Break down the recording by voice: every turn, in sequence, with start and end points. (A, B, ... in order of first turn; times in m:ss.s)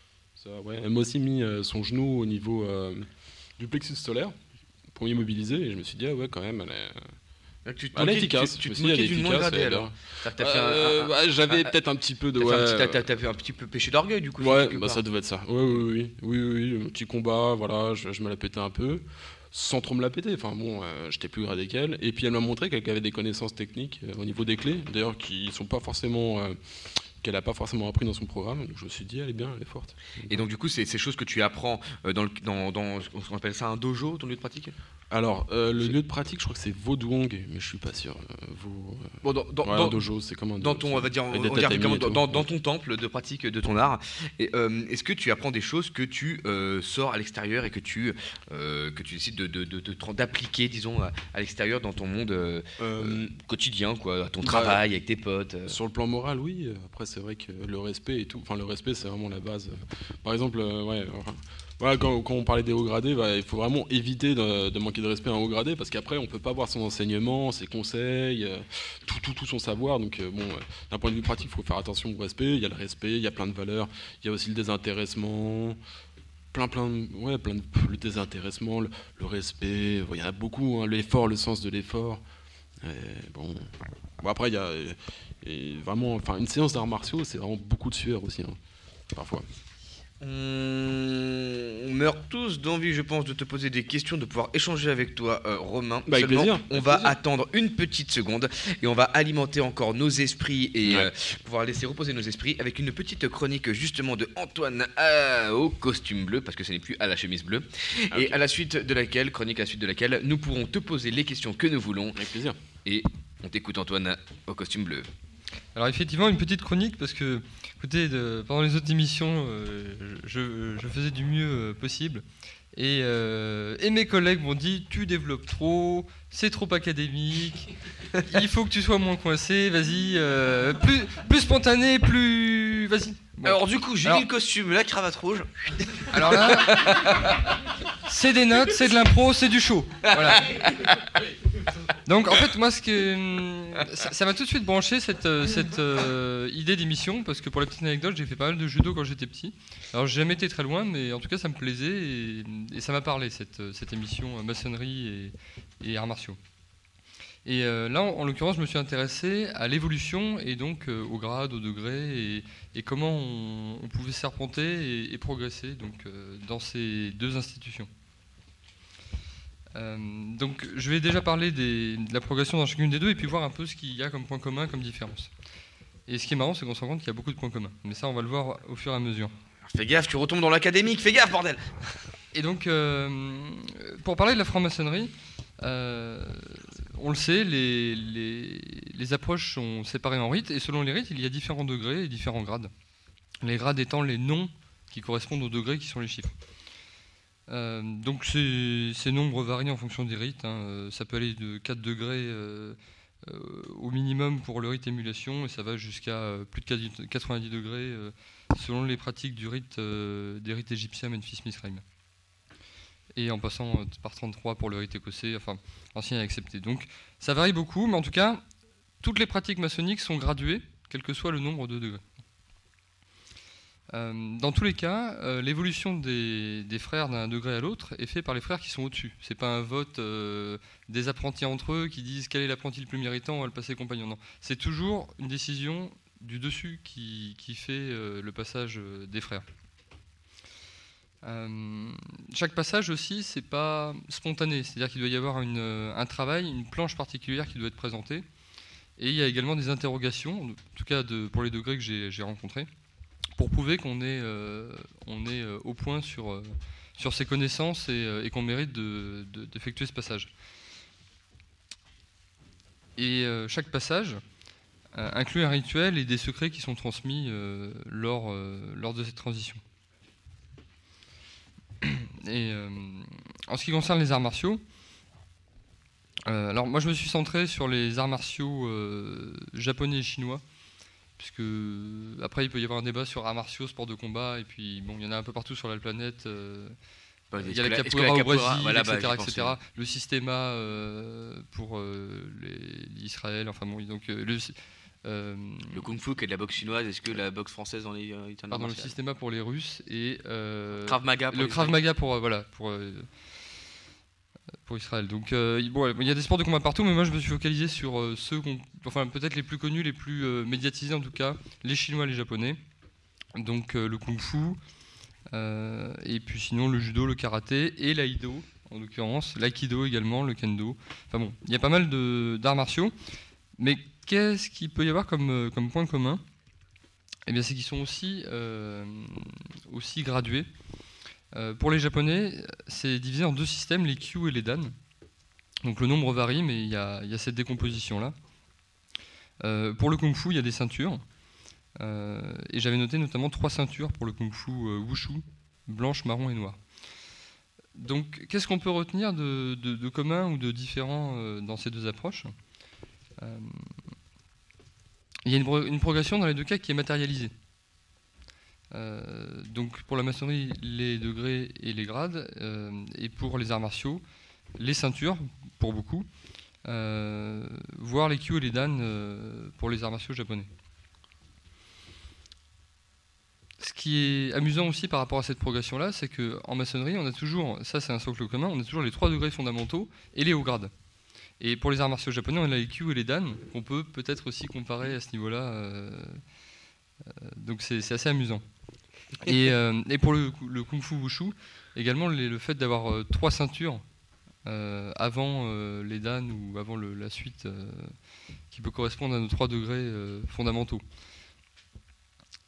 0:00.4-0:04.4 A
0:04.9-0:07.1 A
0:07.6-0:11.7 B
0:07.9-0:13.0 A
0:12.4-0:15.0 B
0:14.4-0:26.6 A
0:27.2-0:30.4 A
0:30.3-0:34.7 B
0:35.1-0:42.5 A
0:39.2-0:40.0 B
0:40.6-0:55.7 B
0:52.8-0:53.3 A
0:54.4-0:54.8 A
0:55.7-1:15.8 A
1:16.5-1:22.2 A
1:22.8-1:28.6 A
1:29.1-1:29.4 A
1:30.2-1:52.2 B
1:36.1-1:37.1 A
1:40.8-1:41.1 A
1:48.1-1:48.4 A
1:52.2-1:52.6 A
1:52.8-1:55.1 B
1:55.7-2:07.7 C
2:08.3-2:14.3 C
2:13.4-2:17.4 B
2:16.1-2:17.3 C
2:18.0-2:20.5 C
2:20.1-2:21.0 B
2:22.0-2:36.4 C
2:37.4-2:47.9 C
2:49.7-2:55.3 C
2:56.1-2:59.3 C
2:59.6-3:01.8 B
3:02.3-3:12.7 C
3:13.4-3:16.3 C
3:17.5-3:31.8 C
3:33.1-3:38.4 C
3:39.0-3:42.0 C
3:43.9-3:59.4 C
4:01.2-4:08.2 C
4:09.0-4:12.7 C
4:13.4-4:20.3 C
4:23.0-4:24.2 C
4:24.9-4:29.6 C
4:31.8-4:34.6 C
4:36.2-4:40.4 C
4:41.2-4:46.7 C
4:47.3-4:49.5 B
4:47.4-4:55.8 C
4:55.7-4:58.9 B
4:58.5-5:03.1 C
5:00.8-5:01.8 B
5:04.6-5:12.6 C
5:13.4-5:14.6 C
5:15.3-5:22.9 C
5:23.6-5:26.2 C
5:27.3-5:30.5 C
5:31.3-5:34.7 C
5:35.6-5:38.1 C
5:39.4-5:41.0 C
5:41.8-5:46.6 C
5:47.7-5:52.3 C
5:53.2-5:53.7 C
5:55.2-5:57.3 C
5:58.7-6:04.0 C
6:04.6-6:06.1 C
6:06.6-6:10.5 C
6:13.6-6:20.7 C
6:21.4-6:26.2 C
6:27.0-6:28.4 C
6:29.2-6:33.8 C
6:34.4-6:37.9 C
6:38.5-6:40.8 C